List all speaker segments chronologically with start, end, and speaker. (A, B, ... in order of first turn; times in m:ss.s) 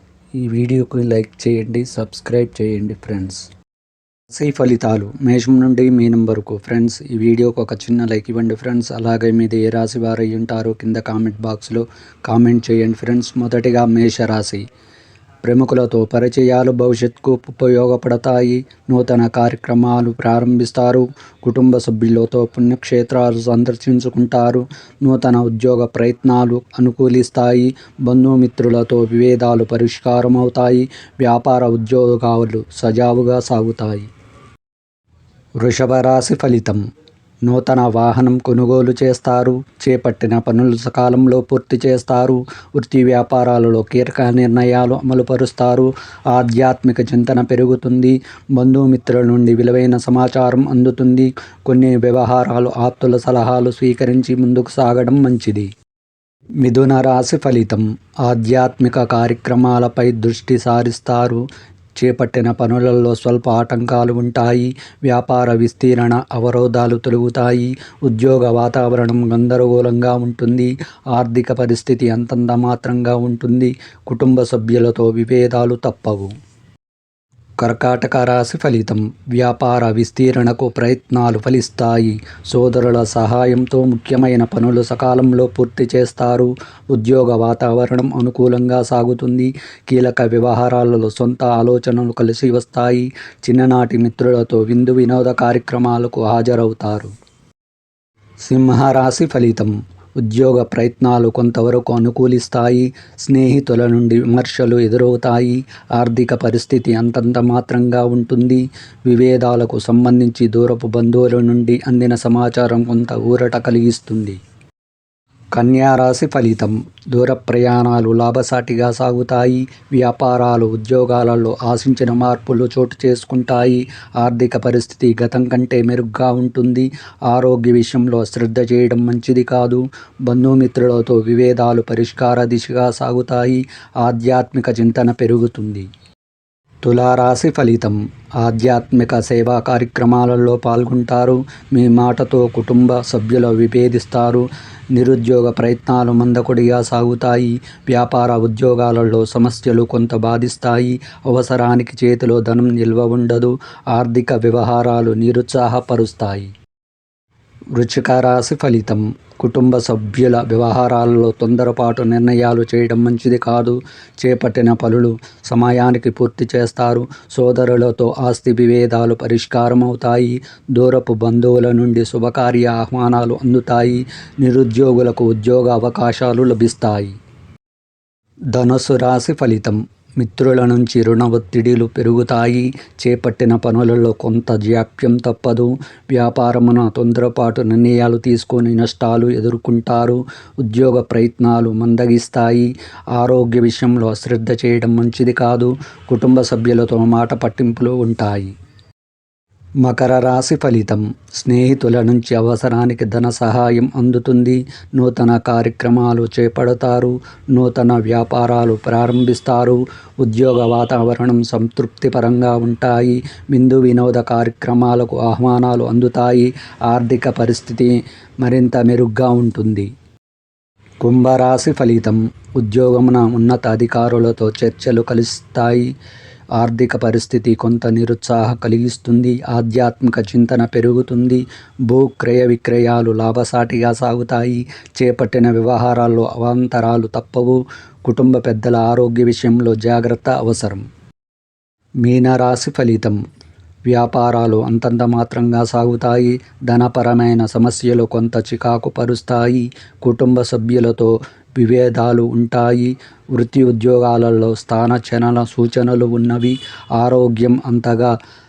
0:00.3-0:03.5 A
0:04.3-0:14.6 A
0:15.4-0:34.1 A
0:35.6-0:36.8 A
0:37.4-0:55.7 A
0:56.6-1:01.4 A
1:02.0-1:16.3 A
1:17.6-1:37.1 A
1:38.4-1:54.4 A
1:55.5-2:15.9 A
2:16.8-2:36.5 A
2:37.8-2:57.1 A
2:58.5-3:18.5 A
3:19.8-3:39.9 A
3:41.0-3:45.9 A
3:46.6-4:00.8 A
4:02.0-4:03.2 A
4:03.9-4:18.1 A